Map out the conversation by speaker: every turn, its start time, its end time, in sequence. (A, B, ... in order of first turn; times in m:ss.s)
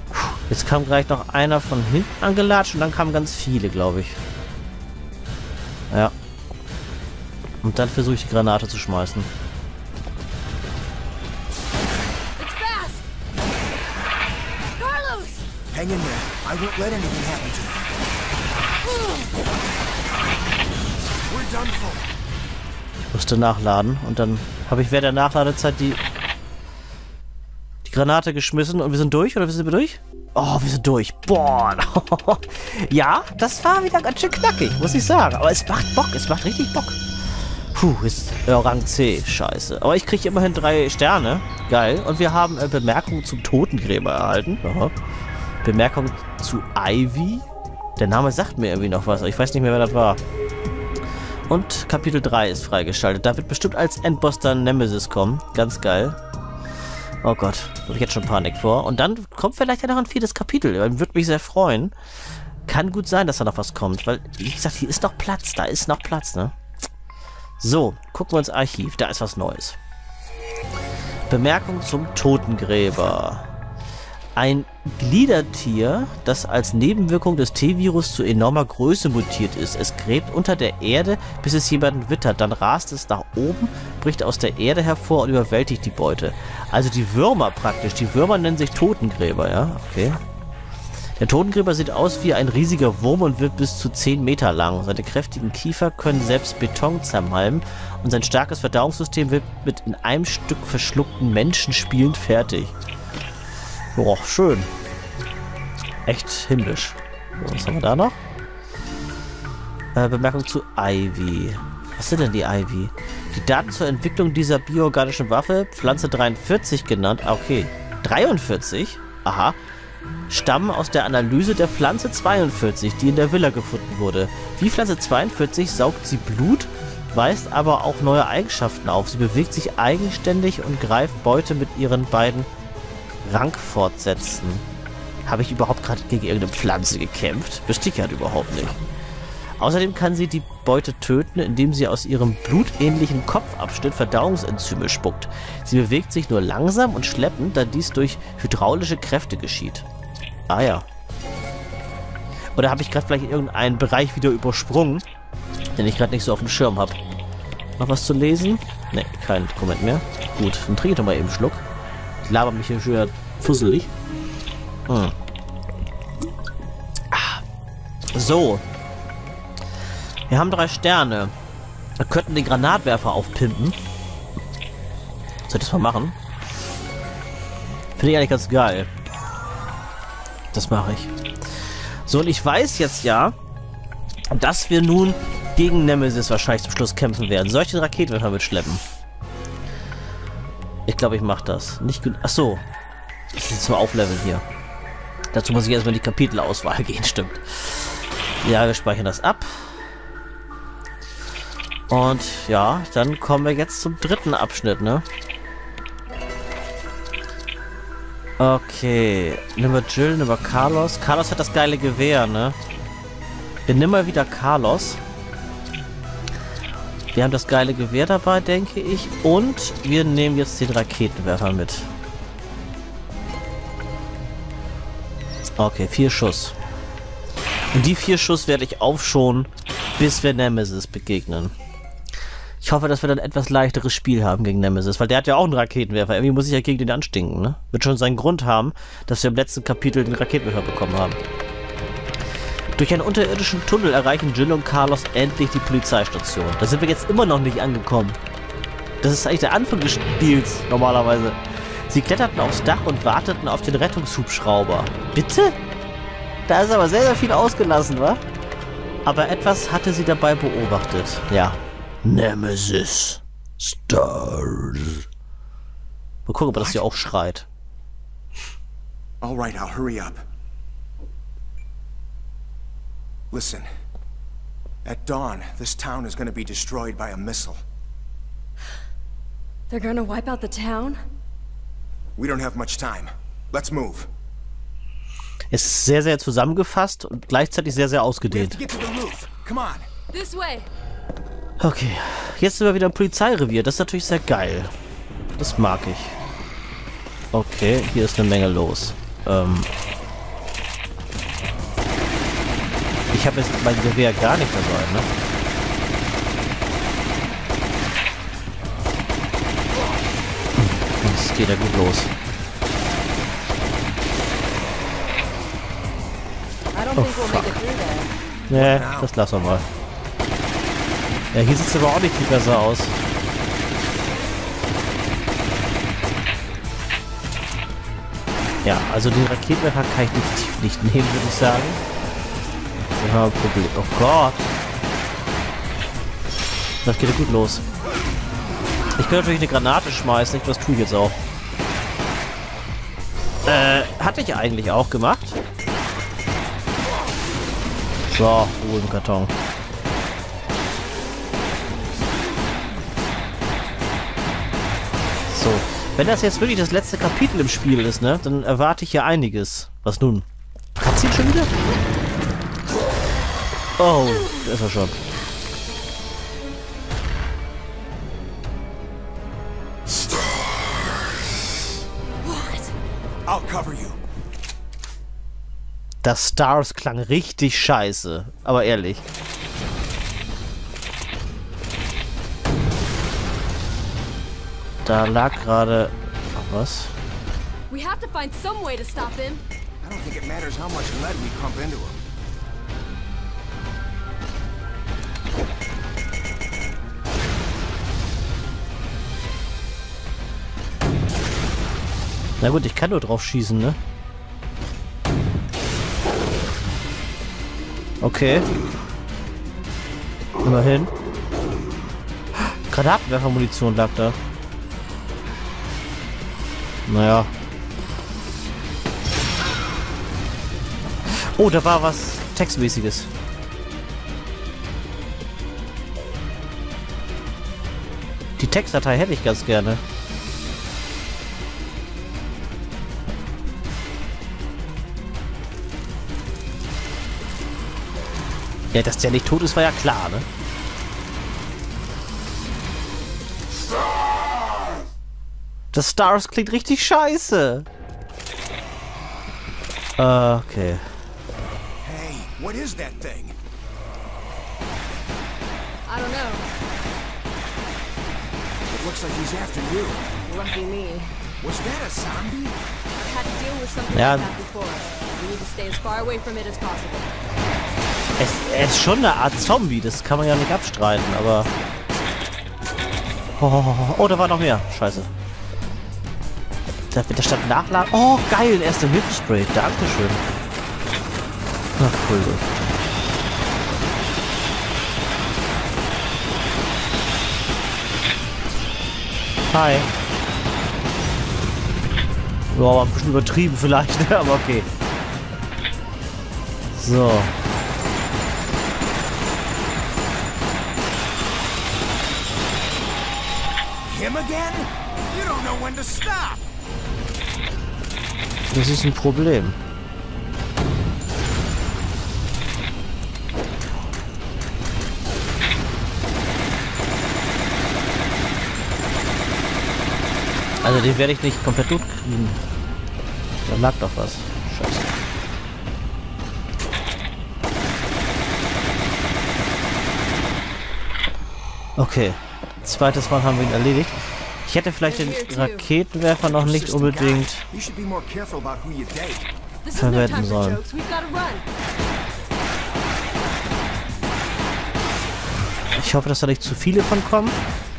0:00.2-0:04.2 A
0:07.6-0:09.3 A
0:12.4-0:13.1 B
0:14.8-0:15.5 B
0:15.7-0:17.9 C
0:21.1-0:22.1 C
0:23.1-0:26.0 A
0:27.8-0:37.0 A
0:37.7-0:45.0 A
0:45.6-0:47.5 A
0:48.0-0:50.2 A
0:51.5-0:56.2 A
0:57.2-1:01.9 A
1:02.7-1:06.5 A
1:07.6-1:09.8 A
1:11.3-1:13.5 A
1:14.4-1:30.2 A
1:31.2-1:42.7 A
1:44.0-1:44.7 A
1:46.1-1:48.2 A
1:50.0-1:59.6 A
2:00.3-2:12.5 A
2:13.2-2:14.6 A
2:15.2-2:18.8 A
2:19.6-2:29.8 A
2:30.5-2:30.9 A
2:32.6-2:35.0 A
2:35.8-2:37.0 A
2:37.8-2:41.6 A
2:42.2-2:43.9 A
2:44.9-2:45.1 A
2:47.1-2:47.4 A
2:48.1-2:48.6 A
2:50.3-2:51.3 A
2:52.0-2:53.8 A
2:55.5-2:56.2 A
2:58.0-2:58.9 A
3:00.5-3:01.1 A
3:02.1-3:03.4 A
3:04.3-3:08.8 A
3:10.9-3:12.6 A
3:13.3-3:14.4 A
3:15.3-3:17.9 A
3:18.4-3:19.7 A
3:21.9-3:25.0 A
3:28.4-3:32.6 A
3:33.7-3:35.0 A
3:37.1-3:41.9 A
3:45.6-3:46.6 A
3:47.7-3:51.5 A
3:52.6-4:01.2 A
4:02.8-4:08.2 A
4:09.0-4:15.6 A
4:16.5-4:18.2 A
4:19.0-4:25.0 A
4:26.3-4:27.5 A
4:29.2-4:30.2 C
4:33.3-4:33.7 C
4:34.8-4:37.6 C
4:39.7-4:41.0 B
4:42.2-4:44.1 C
4:45.5-4:48.6 A
4:48.3-4:49.9 C
4:50.1-4:50.7 B
4:51.6-4:54.7 A
4:55.4-4:56.2 A
4:57.3-4:59.7 A
5:03.1-5:05.1 A
5:10.6-5:12.1 A
5:16.7-5:18.1 B
5:17.0-5:17.6 A
5:18.5-5:19.6 A
5:18.5-5:19.1 C
5:21.3-5:23.0 A
5:28.6-5:31.8 A
5:33.0-5:34.5 A
5:36.8-5:37.7 A
5:39.0-5:41.2 A
5:43.5-5:45.4 A
5:48.1-5:49.3 A
5:55.3-6:00.3 A
6:00.8-6:01.5 A
6:03.8-6:05.0 A
6:12.2-6:12.7 B
6:13.3-6:14.0 C
6:16.0-6:19.0 A
6:24.8-6:26.9 A
6:27.7-6:29.4 B
6:29.8-6:32.0 C
6:42.4-6:43.8 A
6:48.0-6:48.5 A
6:50.4-6:50.9 A
6:52.4-6:54.2 A
6:56.9-6:57.3 A
7:01.1-7:03.1 A
7:08.4-7:09.8 A
7:18.7-7:20.3 A
7:25.7-7:27.7 A
7:30.0-7:30.8 A
7:31.8-7:33.4 C
7:35.9-7:36.5 B
7:38.7-7:40.1 C
7:40.3-7:41.1 B
7:41.4-7:42.6 C
7:42.9-7:47.1 B
7:43.9-7:44.3 A
7:48.2-7:51.5 A
7:53.4-7:55.1 A
7:56.9-8:00.2 A
8:01.8-8:02.5 A
8:09.5-8:09.9 A
8:12.5-8:14.7 A
8:16.7-8:17.3 A
8:23.8-8:26.5 C
8:28.5-8:29.6 A
8:40.6-8:42.4 A
8:43.4-8:44.9 A
8:51.8-8:57.5 A
8:54.8-8:55.7 B
8:56.2-8:59.3 C
8:59.6-9:01.4 B
8:59.8-9:00.6 A
9:05.8-9:07.4 A